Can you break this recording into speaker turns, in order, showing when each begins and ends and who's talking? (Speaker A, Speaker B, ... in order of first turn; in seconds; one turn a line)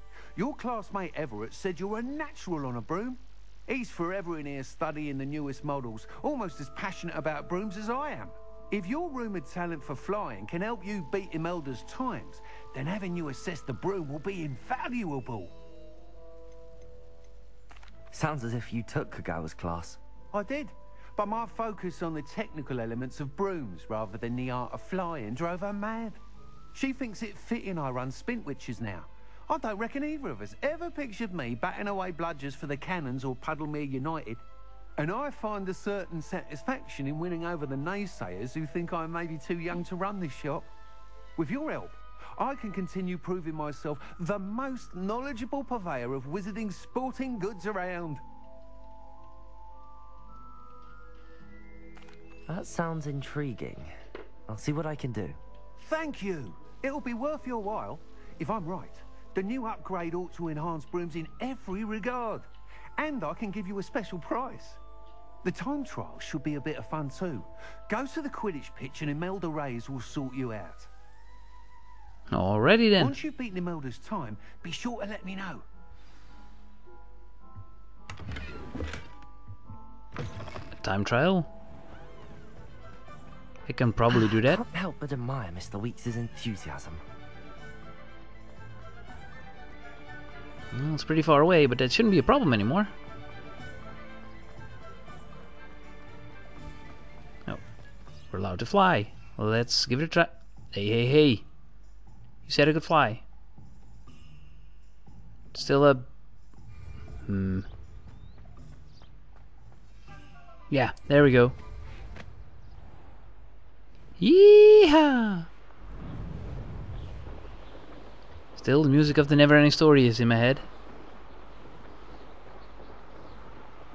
Speaker A: 0.3-15.5
Speaker B: 18.1-20.0
Speaker A: 20.3-26.2
Speaker A: 26.7-34.4
Speaker A: 35.0-40.7
Speaker A: 41.4-48.2
Speaker B: 52.5-53.9
Speaker B: 54.5-55.4
Speaker A: 55.8-64.8
Speaker A: 65.4-70.9
Speaker C: 72.3-73.2
Speaker A: 73.0-75.6
Speaker C: 80.8-81.5
Speaker C: 83.7-84.6
Speaker B: 84.1-87.0
Speaker C: 90.7-92.9
Speaker C: 98.3-101.5
Speaker C: 102.4-103.2
Speaker C: 105.5-106.1
Speaker C: 107.2-107.7
Speaker C: 110.7-111.5
Speaker C: 114.2-115.5
Speaker C: 118.5-120.7